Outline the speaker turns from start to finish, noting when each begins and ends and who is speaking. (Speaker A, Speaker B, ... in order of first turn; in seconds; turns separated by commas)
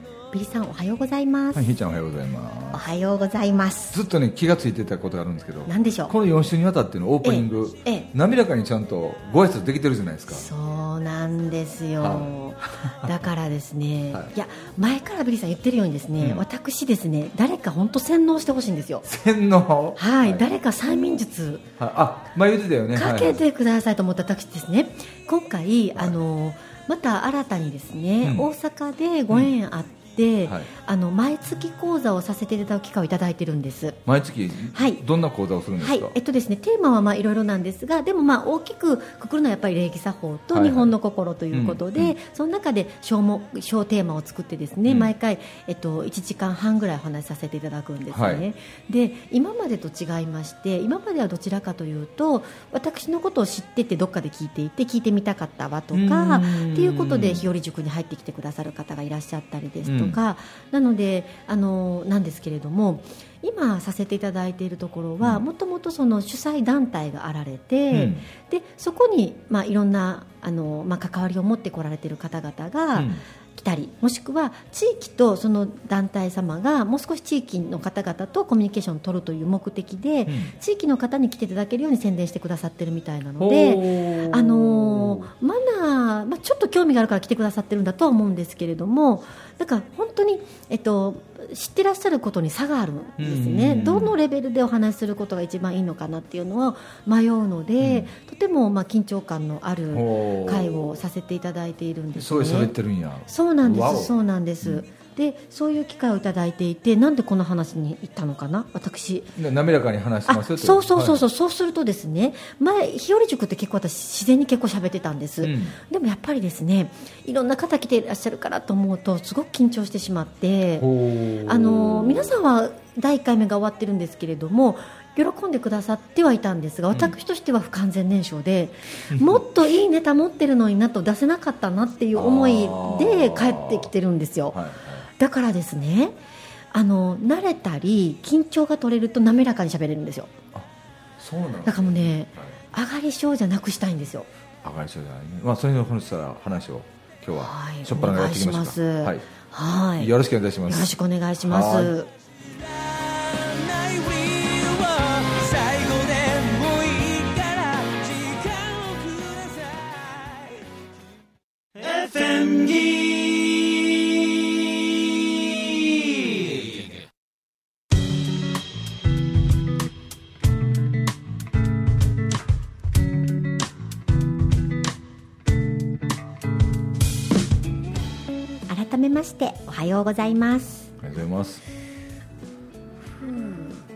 Speaker A: 0.3-1.6, Speaker B: 1.5-2.8, Speaker A: 2.7-4.0, Speaker B: 3.9-10.5, Speaker A: 5.7-6.1, Speaker A: 7.2-8.1, Speaker A: 10.3-19.0, Speaker B: 12.0-13.1, Speaker B: 16.2-16.4, Speaker B: 19.0-20.5, Speaker A: 20.0-21.6, Speaker B: 21.8-23.4, Speaker A: 22.9-34.0, Speaker B: 28.2-28.5, Speaker B: 34.0-36.2, Speaker A: 34.7-35.0, Speaker A: 35.8-102.7, Speaker B: 40.5-40.9, Speaker B: 41.5-42.1, Speaker B: 44.9-45.1, Speaker B: 48.1-48.4, Speaker B: 55.9-57.5, Speaker B: 59.8-60.2, Speaker B: 67.9-68.3, Speaker B: 72.9-73.2, Speaker B: 80.3-80.5, Speaker B: 83.4-85.3, Speaker B: 93.2-94.2, Speaker B: 97.8-98.1, Speaker B: 99.9-100.9, Speaker B: 102.2-104.8, Speaker A: 103.3-109.3, Speaker B: 109.4-111.2, Speaker A: 110.3-120.9, Speaker B: 115.4-115.8, Speaker B: 120.8-122.3, Speaker A: 121.4-134.6, Speaker B: 126.9-127.2, Speaker B: 129.1-129.4, Speaker B: 132.1-133.9, Speaker B: 134.5-135.1, Speaker A: 135.2-136.2, Speaker A: 136.7-140.3, Speaker B: 140.5-142.6, Speaker A: 141.6-144.3, Speaker B: 144.6-149.2, Speaker A: 147.3-150.1, Speaker B: 150.0-151.9, Speaker A: 150.7-152.1, Speaker C: 152.6-160.5, Speaker C: 161.7-166.9, Speaker A: 178.7-180.9, Speaker B: 181.0-181.6, Speaker A: 183.2-183.8